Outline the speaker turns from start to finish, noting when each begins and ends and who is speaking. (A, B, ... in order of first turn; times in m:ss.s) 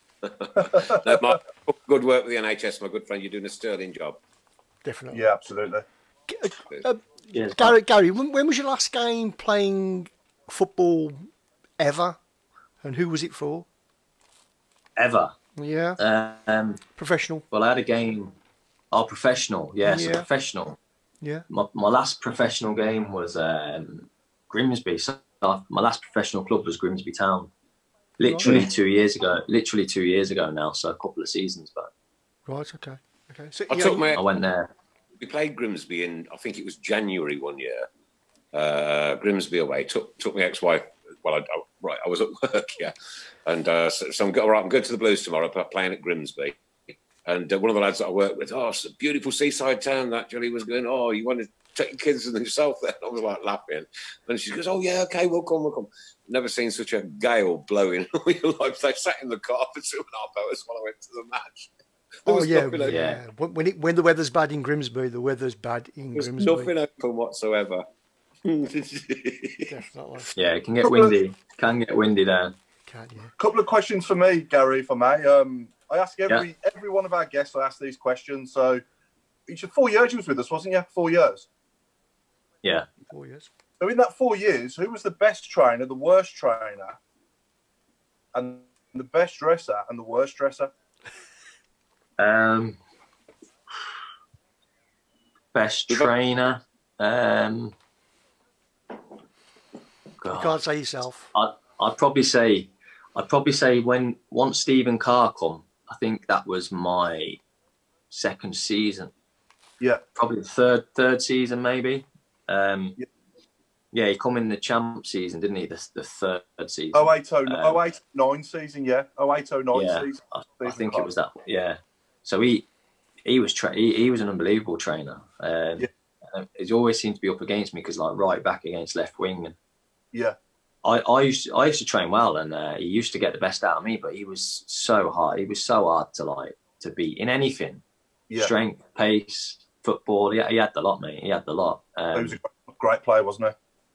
0:00.3-0:04.2 A
0:04.8-0:05.2 B
0:05.1-0:05.8 C
0:06.3-0:12.2 B
0:07.3-0:07.8 D
0:12.8-0:13.7 B
0:15.0-0:15.4 D
0:15.6-0:16.0 B
0:16.0-0:16.8 D
0:17.0-0:17.4 B
0:17.5-0:18.4 D
0:18.9-0:20.8 D
0:19.8-0:20.3 B
0:21.2-0:21.4 B
0:21.5-0:27.5 D
0:28.2-0:31.9 D
0:28.2-0:28.6 B
0:32.4-0:34.1 B
0:33.7-0:34.2 A
0:34.1-0:34.7 D
0:35.2-0:37.9 A
0:38.5-0:42.9 A
0:43.4-0:46.6 A
0:47.2-1:01.7 A
1:02.2-1:03.0 A
1:02.3-1:06.7 B
1:02.8-1:03.2 D
1:06.2-1:07.8 A
1:08.4-1:09.7 A
1:09.7-1:10.3 B
1:10.3-1:12.5 D
1:10.8-1:11.1 C
1:12.9-1:13.3 B
1:13.4-1:18.8 C
1:19.5-1:21.5 C
1:22.6-1:22.9 D
1:23.1-1:23.5 B
1:23.8-1:27.0 C
1:28.3-1:30.7 C
1:32.2-1:32.8 D
1:35.5-1:37.7 D
1:40.2-1:40.6 D
1:40.3-1:41.3 B
1:41.3-1:47.4 D
1:48.1-1:49.1 D
1:50.1-1:53.0 D
1:53.9-1:57.8 D
1:56.9-2:01.1 C
1:59.7-2:02.7 D
2:03.2-2:09.6 D
2:10.8-2:17.8 D
2:18.4-2:22.4 D
2:22.1-2:23.5 C